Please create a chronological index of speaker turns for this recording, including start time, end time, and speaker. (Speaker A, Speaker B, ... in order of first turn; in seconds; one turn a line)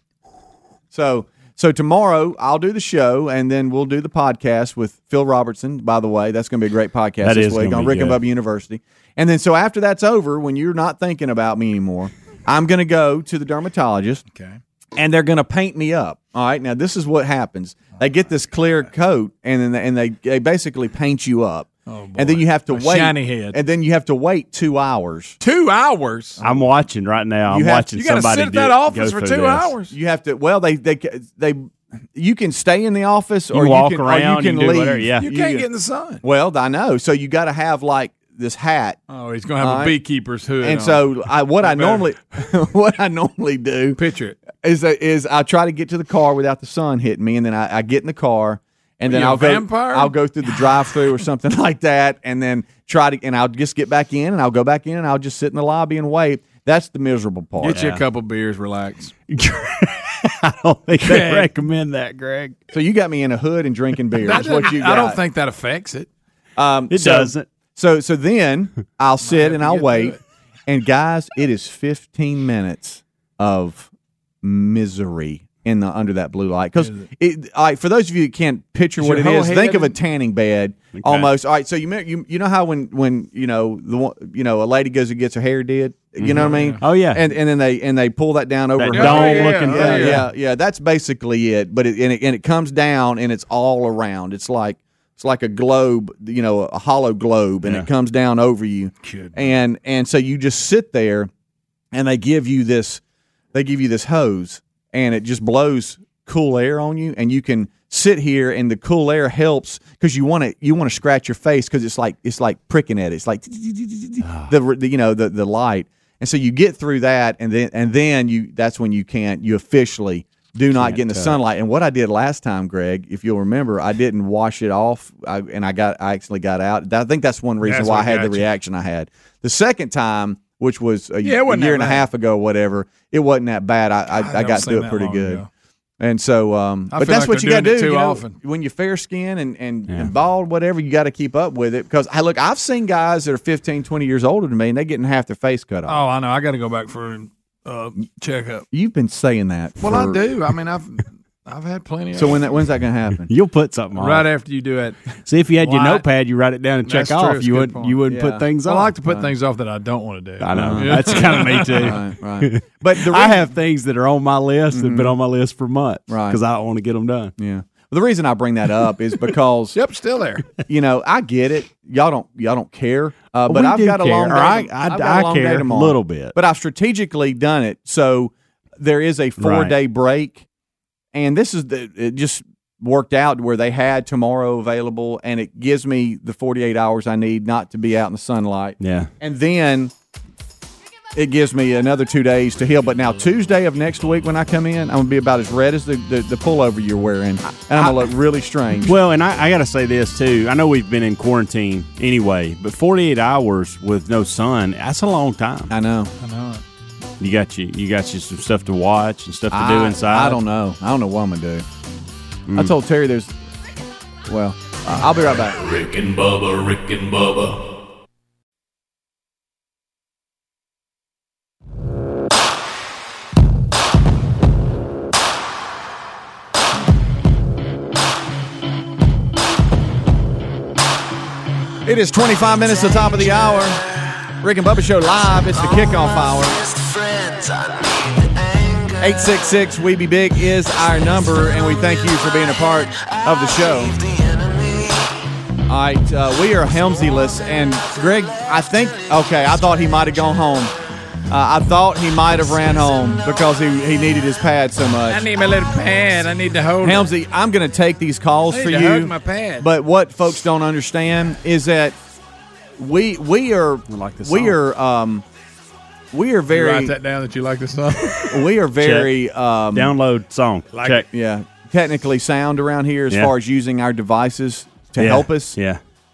Speaker A: 0.9-14.2
Speaker B: 7.2-8.2
Speaker C: 14.3-14.6
Speaker A: 15.0-25.4
Speaker C: 21.9-23.6
Speaker C: 25.4-26.4
Speaker B: 26.4-29.7
Speaker A: 27.5-27.9
Speaker C: 27.9-29.9
Speaker A: 29.9-35.7
Speaker B: 33.5-35.3
Speaker C: 35.2-36.2
Speaker A: 36.2-39.0
Speaker C: 39.1-42.1
Speaker A: 39.6-40.0
Speaker A: 40.6-44.0
Speaker C: 44.0-44.4
Speaker A: 44.5-57.8
Speaker C: 49.1-50.1
Speaker C: 57.6-59.1
Speaker B: 57.7-58.0
Speaker B: 59.3-62.6
Speaker C: 61.0-61.5
Speaker A: 62.7-65.2
Speaker C: 64.2-66.1
Speaker A: 66.6-70.2
Speaker B: 66.9-67.5
Speaker C: 69.2-70.2
Speaker A: 70.7-73.9
Speaker A: 74.4-101.3
Speaker C: 76.8-77.1
Speaker C: 79.0-79.9
Speaker B: 80.9-81.3
Speaker B: 86.2-87.2
Speaker C: 86.3-86.8
Speaker B: 88.8-90.2
Speaker C: 88.9-90.3
Speaker C: 99.0-99.5
Speaker A: 101.9-103.0
Speaker A: 103.5-135.4
Speaker B: 114.2-114.5
Speaker B: 120.8-121.4
Speaker C: 127.6-128.5
Speaker C: 131.2-132.1
Speaker C: 134.1-135.5
Speaker A: 136.0-146.0
Speaker C: 136.9-138.4
Speaker C: 145.9-148.7
Speaker A: 148.7-150.2
Speaker C: 149.8-152.5
Speaker A: 152.2-153.3
Speaker B: 153.3-154.3
Speaker C: 153.9-155.0
Speaker B: 155.3-158.9
Speaker C: 155.6-156.1
Speaker C: 156.8-158.0
Speaker A: 158.1-158.5
Speaker C: 158.6-162.0
Speaker B: 160.4-167.3
Speaker A: 160.5-163.5
Speaker A: 164.7-165.2
Speaker A: 166.1-166.4
Speaker A: 167.4-169.8
Speaker C: 169.7-170.5
Speaker A: 170.6-180.5
Speaker B: 173.5-176.3
Speaker B: 179.4-179.7
Speaker A: 181.1-189.9
Speaker B: 188.8-189.1
Speaker A: 191.2-198.9
Speaker B: 198.8-205.7
Speaker A: 205.7-206.1
Speaker C: 206.2-206.6
Speaker B: 207.2-210.4
Speaker A: 209.5-211.7
Speaker B: 212.5-212.7
Speaker A: 212.6-213.4
Speaker A: 214.3-215.6
Speaker D: 215.3-217.6
Speaker A: 231.8-233.8
Speaker A: 234.4-236.6
Speaker A: 239.0-244.0
Speaker A: 245.7-250.7
Speaker A: 251.3-255.2
Speaker C: 255.1-257.1
Speaker A: 256.8-262.0
Speaker C: 258.5-259.7
Speaker A: 262.8-265.2
Speaker B: 263.9-264.6
Speaker A: 266.1-266.9
Speaker C: 266.5-268.4
Speaker A: 268.3-269.9
Speaker B: 268.8-269.1
Speaker B: 269.7-271.1
Speaker C: 270.7-271.0
Speaker A: 271.1-275.6
Speaker B: 275.0-275.8